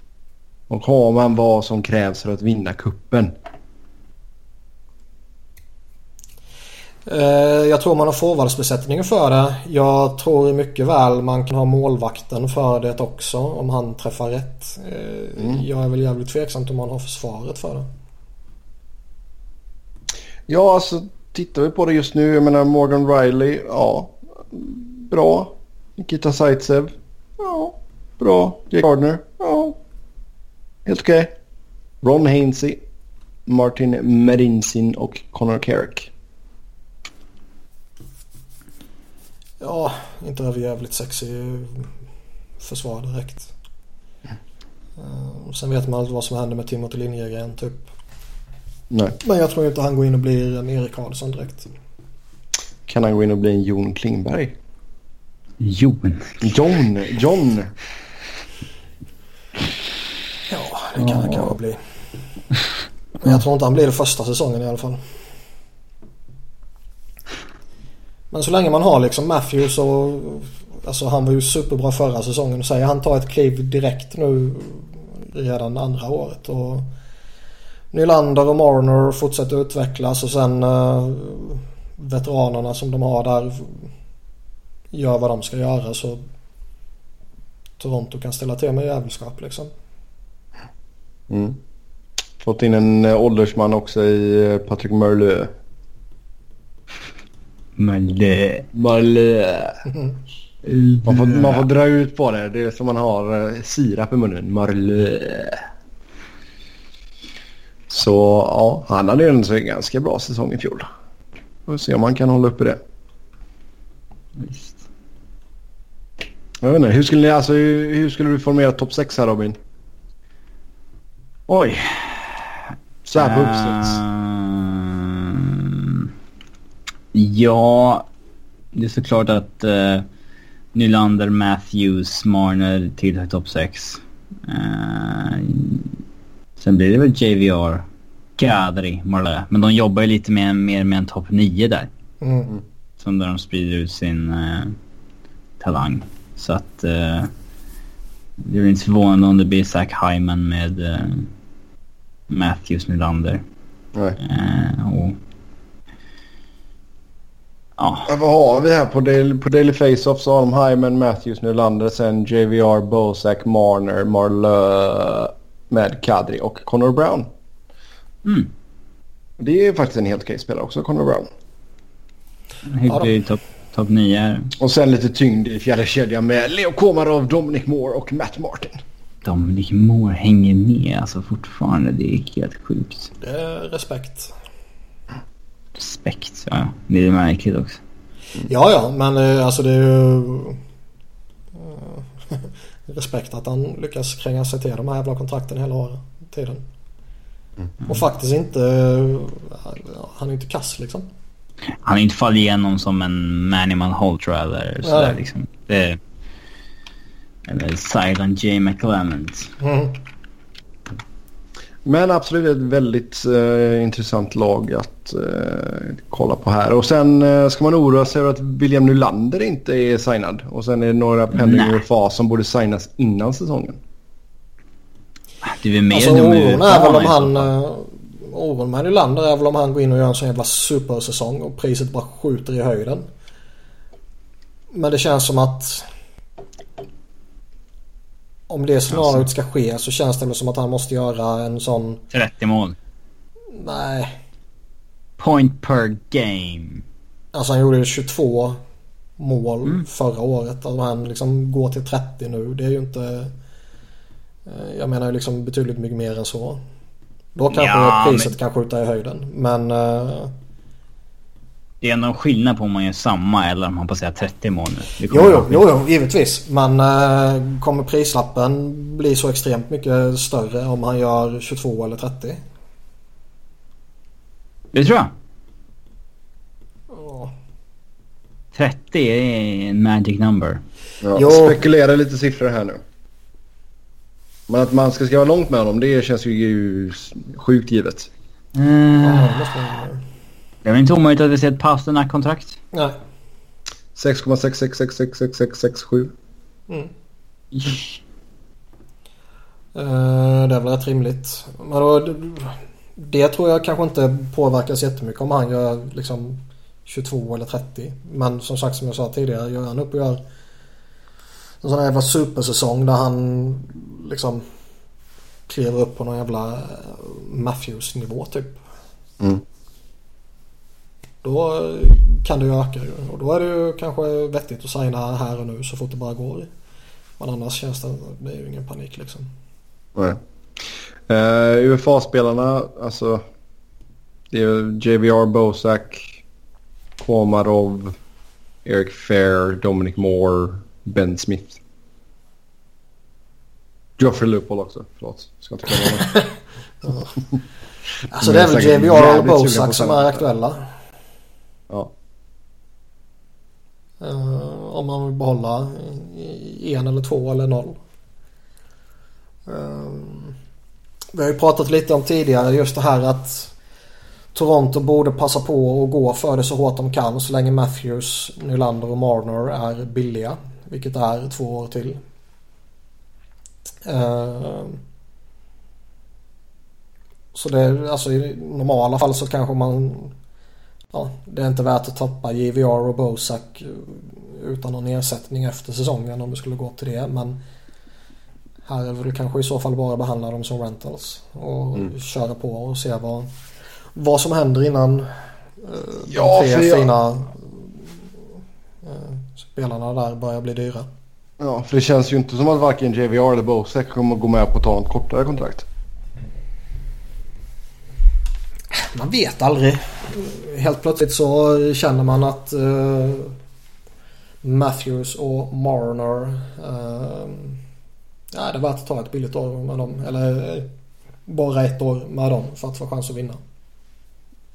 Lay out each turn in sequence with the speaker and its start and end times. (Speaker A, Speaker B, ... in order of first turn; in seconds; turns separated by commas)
Speaker A: 0.7-3.3, Speaker B: 7.0-17.9, Speaker A: 15.4-15.6, Speaker A: 20.5-29.8, Speaker A: 30.8-31.3, Speaker A: 32.0-32.8, Speaker A: 33.5-36.1, Speaker B: 39.6-41.9, Speaker B: 42.6-43.5, Speaker B: 45.0-47.9, Speaker A: 48.9-49.1, Speaker B: 49.2-51.7, Speaker A: 52.9-54.5, Speaker C: 55.6-56.4, Speaker A: 56.4-57.7, Speaker B: 60.5-61.8, Speaker A: 61.0-61.5, Speaker B: 63.2-65.1, Speaker B: 68.3-76.9, Speaker B: 77.9-83.9, Speaker B: 84.9-86.2, Speaker B: 87.8-89.7, Speaker A: 91.3-91.6, Speaker A: 92.4-95.5, Speaker C: 97.8-98.7, Speaker A: 98.7-99.8, Speaker C: 100.6-101.6, Speaker A: 101.0-105.6, Speaker A: 107.9-110.9, Speaker A: 111.7-112.8, Speaker C: 114.4-114.8, Speaker A: 116.6-119.6, Speaker C: 121.5-126.1, Speaker A: 123.0-124.0, Speaker C: 127.1-128.1, Speaker C: 128.7-130.1, Speaker C: 130.7-136.0, Speaker C: 136.6-137.8, Speaker C: 138.4-141.9, Speaker B: 142.2-142.5, Speaker C: 143.0-144.8, Speaker C: 145.6-147.3, Speaker C: 148.4-151.3, Speaker C: 152.3-153.4, Speaker C: 154.2-155.2, Speaker C: 157.8-158.1, Speaker A: 158.1-167.3, Speaker C: 168.2-168.5, Speaker A: 169.4-171.3, Speaker C: 172.7-174.5, Speaker B: 172.9-173.1, Speaker A: 174.6-178.8, Speaker C: 179.2-183.1, Speaker B: 183.2-184.3, Speaker C: 185.8-187.8, Speaker B: 188.4-190.6, Speaker B: 191.6-196.6, Speaker B: 197.8-201.1, Speaker C: 201.8-206.0, Speaker B: 204.8-205.2, Speaker C: 207.4-209.5, Speaker B: 209.6-210.0, Speaker A: 211.8-223.8, Speaker C: 221.3-221.8, Speaker C: 225.4-227.5, Speaker B: 225.9-233.1, Speaker B: 234.7-235.9, Speaker B: 238.5-242.0, Speaker C: 238.9-239.3, Speaker C: 242.1-242.8, Speaker B: 243.5-244.2, Speaker C: 245.2-246.8, Speaker B: 247.3-248.6, Speaker B: 249.2-253.3, Speaker B: 254.5-256.6, Speaker B: 257.3-260.3, Speaker C: 257.5-258.3, Speaker C: 261.8-265.6, Speaker B: 265.1-272.4, Speaker C: 274.7-275.1, Speaker B: 276.9-277.3, Speaker C: 278.5-280.6, Speaker A: 281.0-282.8, Speaker B: 281.1-281.6, Speaker A: 284.5-288.1, Speaker C: 288.5-289.5, Speaker B: 289.0-290.0, Speaker C: 290.6-292.6, Speaker A: 293.9-296.1, Speaker C: 297.5-297.9, Speaker B: 299.7-310.2, Speaker B: 311.6-314.4, Speaker B: 315.5-318.6, Speaker B: 321.2-326.5, Speaker B: 327.2-329.3, Speaker A: 329.9-330.2, Speaker A: 331.1-333.2, Speaker A: 334.3-336.2, Speaker A: 337.0-338.0, Speaker A: 338.6-341.6, Speaker A: 344.0-346.1, Speaker B: 348.1-350.7, Speaker A: 348.2-350.2, Speaker B: 354.0-357.8, Speaker B: 359.5-360.3, Speaker B: 361.1-363.5, Speaker B: 364.3-372.0, Speaker B: 373.8-374.8, Speaker B: 377.3-380.1, Speaker B: 380.9-387.4, Speaker B: 388.6-393.3, Speaker B: 393.9-397.9, Speaker A: 396.1-396.9, Speaker B: 398.8-400.9, Speaker A: 401.4-405.7, Speaker B: 408.7-413.4, Speaker B: 414.4-417.6, Speaker B: 418.3-420.7, Speaker B: 421.3-423.4